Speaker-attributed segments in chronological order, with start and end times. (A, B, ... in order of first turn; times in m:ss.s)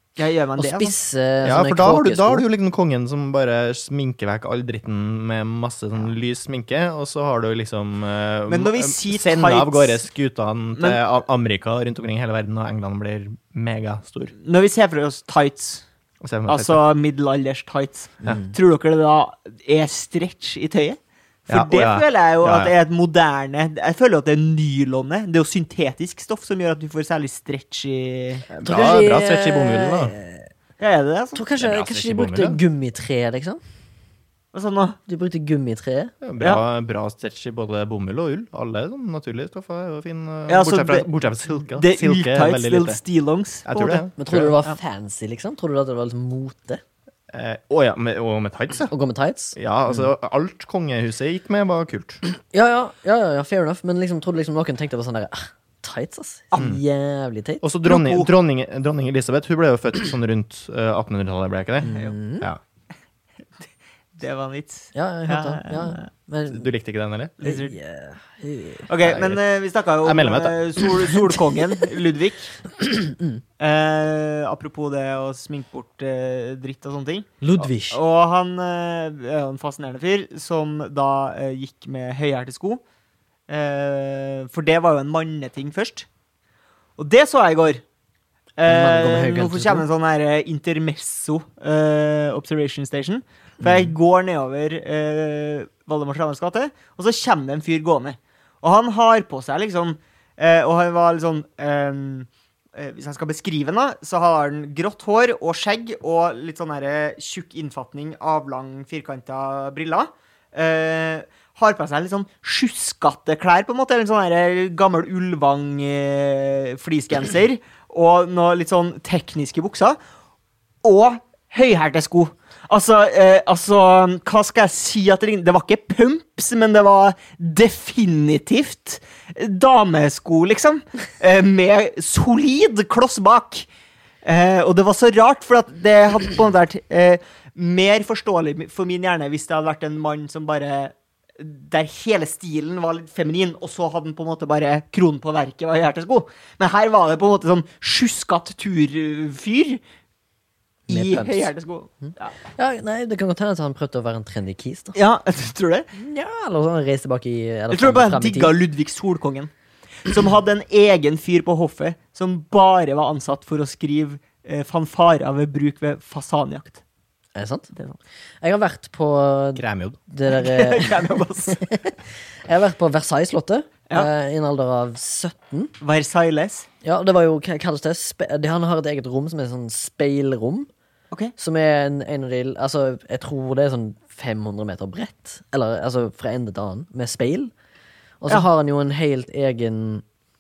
0:00.2-0:01.0 A
0:00.6-0:02.5 B
0:01.4-0:14.3 C
0:08.5-0:10.0 A
0:14.4-0:15.9 A
0:16.2-0:16.8 C
0:16.5-0:28.5 A
0:18.2-0:18.6 B
0:21.5-0:22.7 C
0:28.5-0:30.2 C
0:28.6-0:30.5 B
0:30.8-0:31.4 A
0:31.4-0:33.6 B
0:31.6-0:32.6 C
0:34.5-0:35.0 A
0:35.1-0:36.1 B
0:36.2-0:43.0 C
0:40.5-0:44.1 A
0:43.7-0:44.5 C
0:44.2-0:46.8 B
0:47.3-0:48.9 C
0:48.9-0:50.1 B
0:49.6-0:52.2 C
0:52.3-0:57.6 B
0:57.6-1:02.6 C
0:57.8-0:58.3 A
1:01.8-1:02.5 B
1:03.6-1:06.1 A
1:04.9-1:06.7 B
1:06.5-1:07.3 C
1:07.4-1:07.8 A
1:07.4-1:09.2 B
1:08.9-1:12.6 A
1:09.1-1:09.4 C
1:10.0-1:10.7 C
1:11.2-1:11.8 B
1:12.8-1:13.4 B
1:13.6-1:22.8 A
1:17.4-1:18.0 B
1:23.5-1:26.1 A
1:27.0-1:27.8 A
1:28.6-2:00.0 A
1:28.7-1:29.8 B
1:33.6-1:33.9 C
2:00.8-2:13.7 A
2:14.2-2:29.8 A
2:30.9-2:31.5 B
2:30.9-2:32.3 A
2:32.0-2:35.0 B
2:35.0-2:35.9 A
2:35.9-2:38.6 B
2:37.7-2:39.5 A
2:40.0-2:46.8 A
2:47.4-2:47.7 B
2:48.4-2:55.7 B
2:49.6-2:50.0 C
2:50.3-2:51.6 A
2:55.8-2:56.7 A
2:56.8-3:00.7 B
3:01.4-3:07.5 B
3:08.2-3:10.0 B